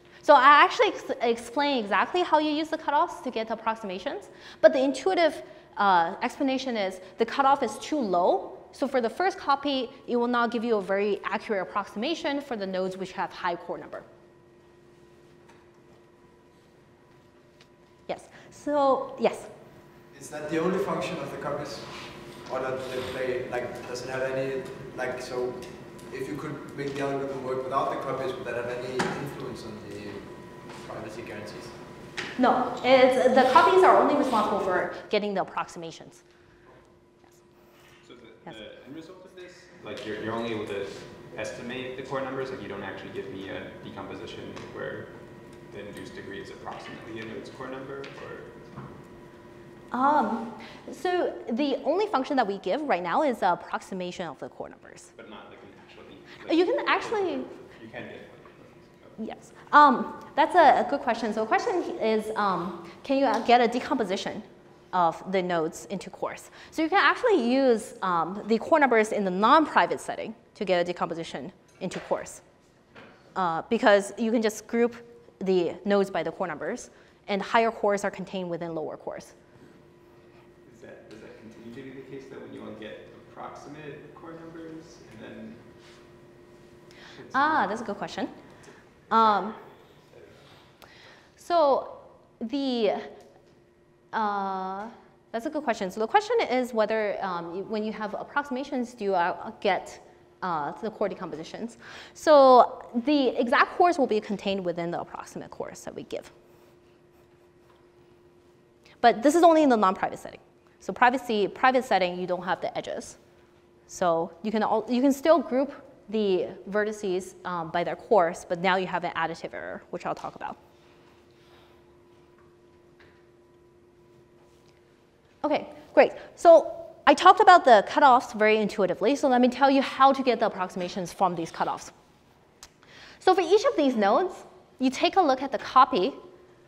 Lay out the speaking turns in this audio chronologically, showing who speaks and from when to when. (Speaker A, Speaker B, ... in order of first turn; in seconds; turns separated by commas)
Speaker A: 0.2-14.1, Speaker A: 18.1-19.5, Speaker B: 20.1-31.8, Speaker A: 32.4-36.2, Speaker C: 38.0-45.1, Speaker C: 45.6-48.8, Speaker A: 49.9-55.1, Speaker C: 55.1-59.2, Speaker A: 56.5-57.5, Speaker A: 59.2-72.4, Speaker A: 73.3-79.3, Speaker C: 80.6-85.7, Speaker C: 87.1-87.7, Speaker A: 87.3-88.3, Speaker C: 89.1-90.5, Speaker A: 89.1-89.6, Speaker A: 91.4-93.1, Speaker A: 94.1-106.3, Speaker A: 109.0-113.2, Speaker A: 113.9-120.6, Speaker A: 125.4-131.9, Speaker A: 133.2-136.2